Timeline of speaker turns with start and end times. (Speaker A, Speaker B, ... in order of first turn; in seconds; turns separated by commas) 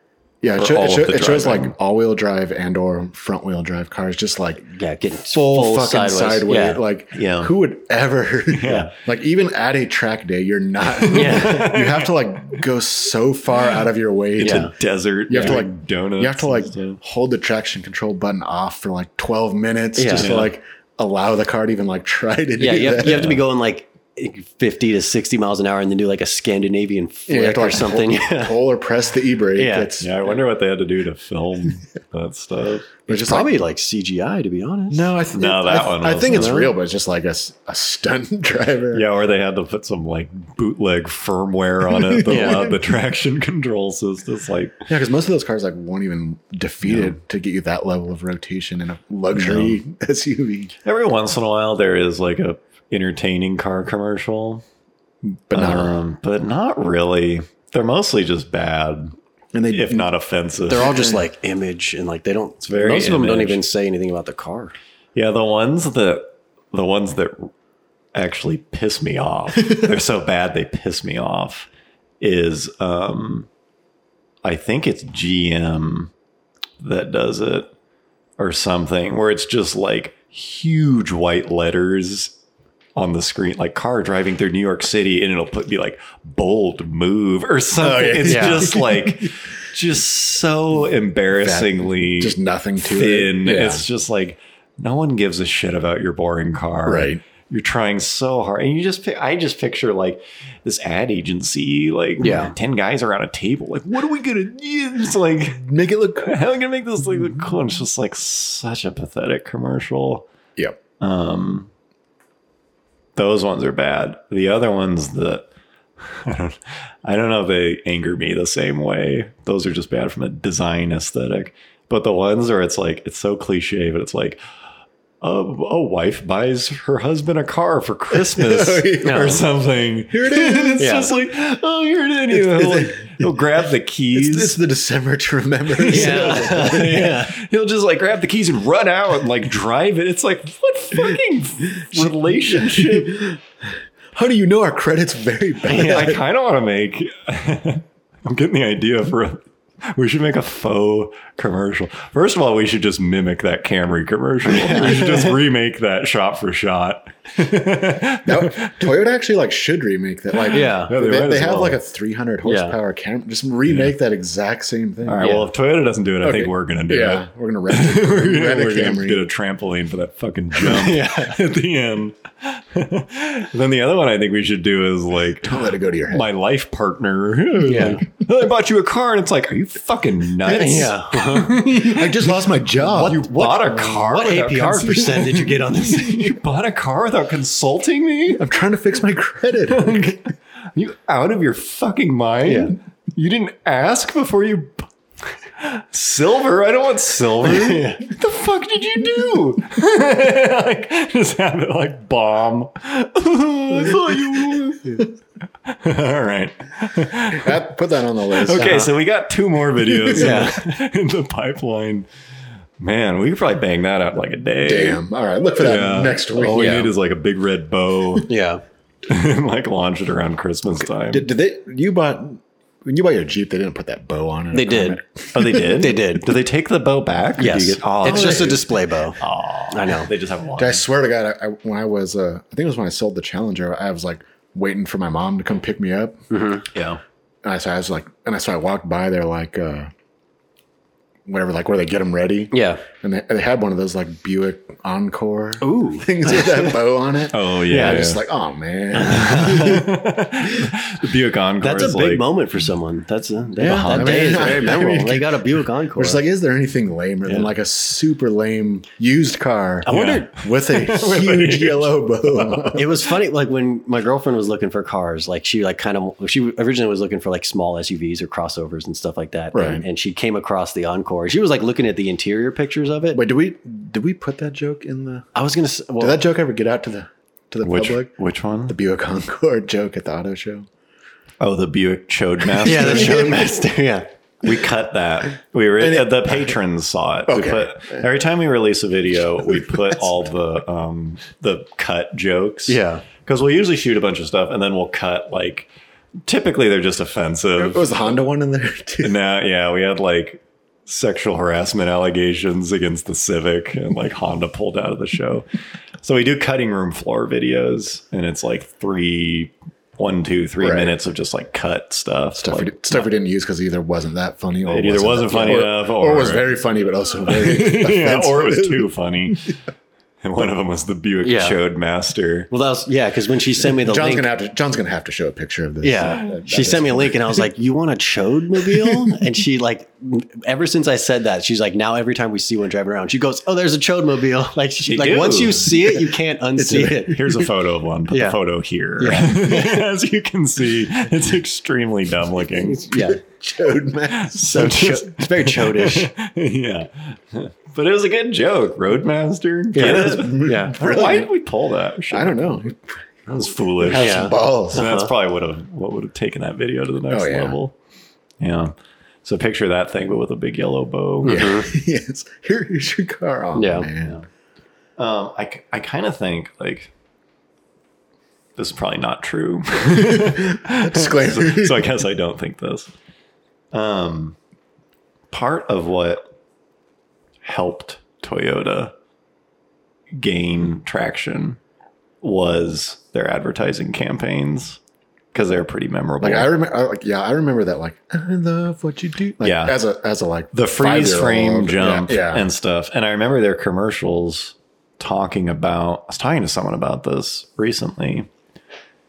Speaker A: 0.4-4.7, Speaker B: 0.6-1.7, Speaker C: 4.7-6.8, Speaker A: 5.2-14.7, Speaker B: 7.1-7.5, Speaker B: 8.5-8.9, Speaker B: 11.0-12.6, Speaker C: 11.1-11.7, Speaker B: 14.4-17.0, Speaker C: 14.4-14.7, Speaker A: 15.3-23.4, Speaker C: 15.3-15.6, Speaker C: 19.9-20.3, Speaker B: 20.1-20.5, Speaker C: 22.6-28.6, Speaker A: 27.3-30.1, Speaker C: 29.6-29.9, Speaker B: 30.0-32.9, Speaker A: 33.1-33.5, Speaker C: 33.1-35.1, Speaker A: 34.9-39.1, Speaker B: 35.3-36.5, Speaker C: 36.3-36.8, Speaker B: 38.9-44.8, Speaker A: 41.9-42.8, Speaker C: 42.3-42.7, Speaker A: 44.9-50.7, Speaker B: 46.8-47.1, Speaker B: 49.3-49.8, Speaker B: 50.8-54.6, Speaker B: 55.2-59.1, Speaker A: 55.5-56.0, Speaker A: 59.5-60.1, Speaker B: 59.7-60.9, Speaker A: 60.7-61.2, Speaker C: 60.7-64.7, Speaker B: 62.6-63.6, Speaker B: 65.1-67.5, Speaker B: 68.1-71.7, Speaker B: 72.2-73.5, Speaker B: 74.4-76.1, Speaker B: 76.8-77.7, Speaker B: 78.4-82.3, Speaker B: 82.9-110.2, Speaker A: 87.8-89.3, Speaker C: 88.3-88.7, Speaker A: 91.3-93.8, Speaker A: 96.8-97.2, Speaker C: 102.2-102.5, Speaker A: 105.6-106.4, Speaker B: 111.0-111.7, Speaker B: 113.2-115.5, Speaker B: 116.0-124.4, Speaker B: 125.2-134.6, Speaker A: 128.1-129.5, Speaker C: 129.0-129.4, Speaker A: 130.1-131.1, Speaker C: 130.8-131.1, Speaker A: 132.3-133.3, Speaker A: 134.1-137.1, Speaker C: 135.9-137.3, Speaker B: 135.9-143.3, Speaker A: 141.9-143.4, Speaker A: 144.1-146.2, Speaker C: 145.7-146.1, Speaker B: 145.8-158.9, Speaker C: 154.5-155.4, Speaker A: 158.2-165.3, Speaker B: 160.4-161.8, Speaker C: 160.5-160.9, Speaker C: 162.4-162.8, Speaker B: 163.7-163.9, Speaker B: 165.0-188.4, Speaker C: 165.2-165.5, Speaker A: 166.2-169.2, Speaker C: 170.6-171.4, Speaker A: 175.4-176.3, Speaker C: 177.7-178.0, Speaker C: 180.4-181.6, Speaker A: 181.7-183.3, Speaker C: 183.2-186.3, Speaker A: 188.3-190.2, Speaker B: 189.7-194.9, Speaker C: 192.4-192.7, Speaker B: 195.6-205.1, Speaker C: 197.4-198.0, Speaker A: 203.7-205.0, Speaker B: 205.7-207.6, Speaker A: 207.3-208.9, Speaker B: 208.3-212.1, Speaker C: 208.6-208.9, Speaker A: 209.8-210.5, Speaker C: 210.1-210.6, Speaker B: 212.8-215.0, Speaker A: 214.6-216.9, Speaker B: 215.6-218.3, Speaker C: 216.5-216.9, Speaker C: 218.3-218.6, Speaker B: 219.1-221.3, Speaker A: 221.0-225.8, Speaker C: 224.5-226.3, Speaker B: 225.3-228.6, Speaker C: 227.4-229.2, Speaker A: 228.0-228.7, Speaker B: 229.2-230.9, Speaker C: 229.7-230.1, Speaker A: 230.6-236.2, Speaker C: 236.3-236.6, Speaker B: 236.7-237.0, Speaker A: 237.4-239.9, Speaker A: 241.2-249.8, Speaker C: 242.5-242.8, Speaker C: 245.6-246.7, Speaker B: 247.3-248.2, Speaker C: 247.7-248.1, Speaker B: 249.0-252.3, Speaker C: 249.1-249.8, Speaker C: 251.6-256.2, Speaker A: 253.6-255.4, Speaker B: 253.6-255.0, Speaker A: 255.9-262.9, Speaker C: 259.9-260.3, Speaker B: 259.9-262.8, Speaker C: 262.8-273.2, Speaker A: 269.5-269.8, Speaker A: 273.1-275.3, Speaker C: 275.3-276.2, Speaker A: 276.0-278.1, Speaker B: 277.6-278.8, Speaker A: 278.7-280.7, Speaker B: 281.4-283.5, Speaker A: 282.6-283.6, Speaker C: 282.6-284.1, Speaker B: 284.4-295.7, Speaker A: 285.8-286.6, Speaker A: 287.3-288.0, Speaker A: 289.4-290.1, Speaker C: 292.7-293.0, Speaker B: 296.2-297.9, Speaker A: 297.6-299.2, Speaker B: 299.0-305.4, Speaker B: 306.0-313.1, Speaker A: 310.6-310.9, Speaker A: 312.4-319.5, Speaker B: 314.7-316.6, Speaker C: 315.3-315.6, Speaker B: 317.2-319.6, Speaker B: 320.2-322.5, Speaker C: 321.2-321.6, Speaker C: 322.5-324.3, Speaker A: 323.8-327.4, Speaker C: 325.8-337.2, Speaker A: 328.6-329.2, Speaker B: 334.8-335.7, Speaker A: 336.5-337.5, Speaker B: 337.0-342.8, Speaker C: 338.1-338.4, Speaker C: 339.0-339.8, Speaker C: 342.7-343.2, Speaker A: 342.9-344.8, Speaker B: 344.2-352.7, Speaker C: 344.4-346.1, Speaker C: 349.7-350.7, Speaker A: 349.7-351.3, Speaker A: 352.1-353.0, Speaker B: 353.3-357.7, Speaker A: 353.8-354.9, Speaker C: 353.9-355.1, Speaker A: 357.1-357.6, Speaker B: 358.4-361.5, Speaker C: 361.2-361.7, Speaker A: 361.2-364.2, Speaker C: 363.5-364.1, Speaker B: 365.0-366.9, Speaker B: 368.6-372.9, Speaker A: 369.9-372.0, Speaker B: 373.7-374.4, Speaker B: 375.3-376.3, Speaker B: 377.4-378.9, Speaker B: 380.1-381.6, Speaker B: 382.2-384.8, Speaker B: 385.3-386.5, Speaker A: 386.2-392.5, Speaker B: 389.4-389.8, Speaker B: 390.5-398.3